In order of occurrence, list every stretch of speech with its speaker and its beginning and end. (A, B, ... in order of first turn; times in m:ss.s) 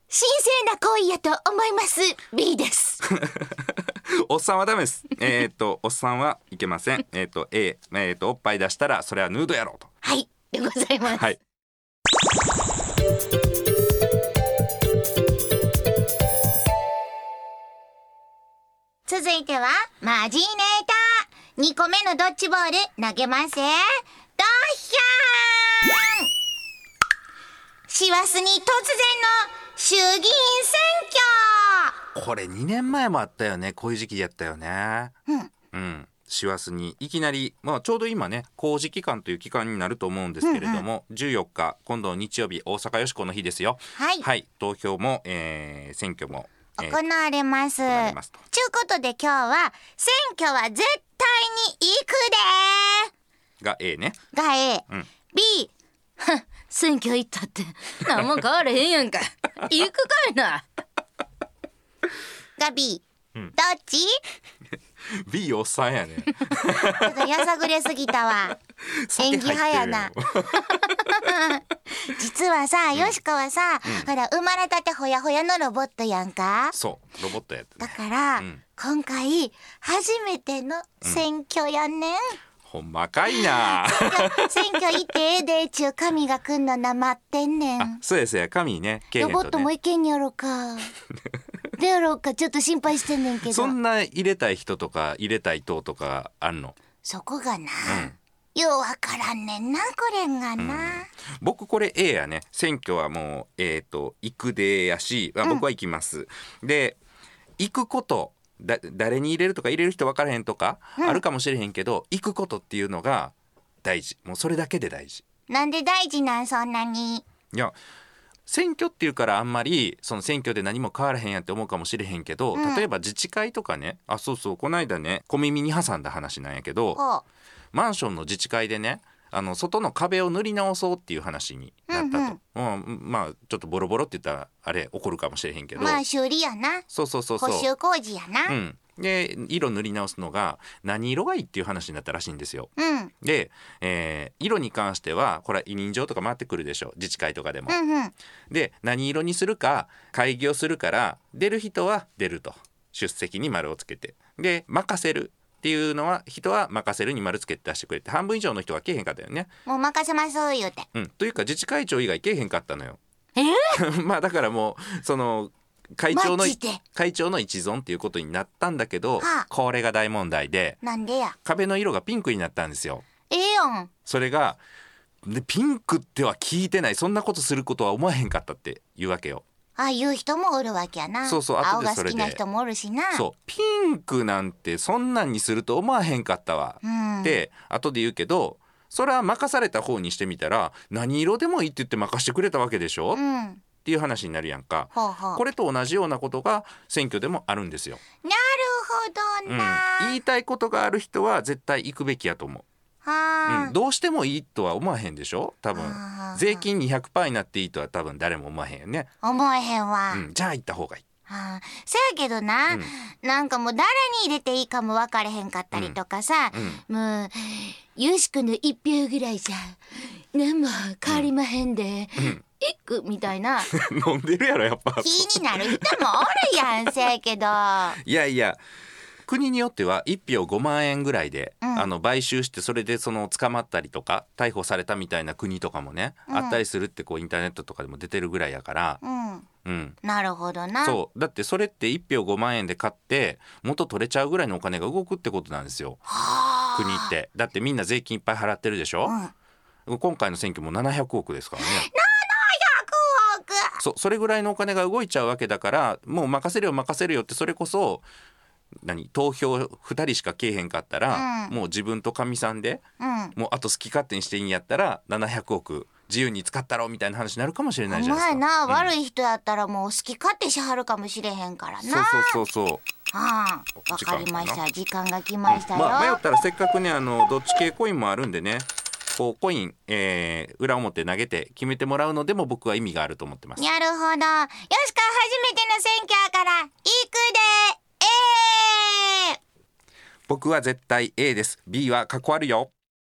0:00.1-0:03.0 A
0:03.1-0:09.9 B
0:10.0-0:11.2 A
0:19.1-0:26.3 A
0:27.9-0:31.9 A
0:32.1-0:35.1 B
0:35.7-0:47.0 B
0:40.4-0:40.8 A
0:44.0-0:44.2 A
0:46.8-0:53.1 A
0:47.9-0:48.4 B
0:53.6-0:54.2 B
0:54.3-1:00.6 A
1:02.6-1:03.0 A
1:03.5-1:04.2 A
1:05.1-1:07.3 B
1:06.9-1:08.6 A
1:08.9-1:11.1 B
1:09.2-1:10.1 A
1:10.7-1:16.8 A
1:16.7-1:18.6 B
1:17.8-1:22.4 A
1:22.6-1:24.6 B
1:23.3-1:28.0 A
1:27.8-1:29.7 B
1:29.2-1:30.9 A
1:31.8-1:33.8 A
1:33.5-1:36.8 B
1:37.0-1:41.1 A
1:37.9-1:38.1 B
1:40.6-1:47.0 B
1:47.6-1:55.2 B
1:55.5-1:57.2 A
1:58.5-2:07.0 B
2:02.5-2:02.9 A
2:07.0-2:07.2 A
2:07.7-2:16.0 B
2:11.9-2:12.4 A
2:15.8-2:16.8 A
2:16.9-2:17.6 B
2:17.4-2:18.5 A
2:18.5-2:22.7 B
2:22.8-2:23.1 A
2:23.2-2:27.8 B
2:27.7-2:28.1 A
2:28.5-2:39.5 B
2:39.6-2:40.9 A
2:40.9-2:43.0 B
2:43.4-2:43.8 A
2:43.7-2:50.8 B
2:46.1-2:46.8 A
2:49.2-2:49.5 A
2:50.8-2:51.4 A
2:51.4-2:53.0 B
2:53.3-2:53.9 A
2:54.0-2:54.6 B
2:55.2-2:59.4 B
2:59.8-3:03.2 A
3:01.3-3:02.4 B
3:03.1-3:13.2 B
3:06.8-3:07.4 A
3:13.1-3:13.6 A
3:13.8-3:18.0 B
3:14.9-3:15.4 A
3:18.2-3:20.2 A
3:19.5-3:22.6 B
3:23.0-3:23.7 A
3:23.5-3:29.1 B
3:25.8-3:26.6 A
3:29.2-3:30.2 A
3:30.1-3:31.0 B
3:31.3-3:43.7 A
3:36.5-3:36.8 B
3:43.7-3:46.0 B
3:45.0-3:48.0 A
3:48.0-3:48.6 B
3:49.3-3:59.0 B
3:51.6-3:51.9 A
3:56.3-3:56.6 A
3:59.0-3:59.4 A
3:59.6-4:00.0 B
4:00.0-4:01.0 A
4:00.8-4:06.0 B
4:06.1-4:07.1 A
4:06.7-4:09.1 B
4:09.0-4:09.3 A
4:09.9-4:11.9 B
4:11.6-4:13.8 A
4:13.8-4:18.0 B
4:18.8-4:22.8 B
4:21.1-4:21.5 A
4:23.0-4:23.3 A
4:23.3-4:28.9 B
4:27.9-4:32.4 A
4:31.8-4:32.8 B
4:33.1-4:36.2 A
4:33.9-4:34.6 B
4:35.5-4:43.6 B
4:43.6-4:49.4 A
4:50.3-4:52.7 B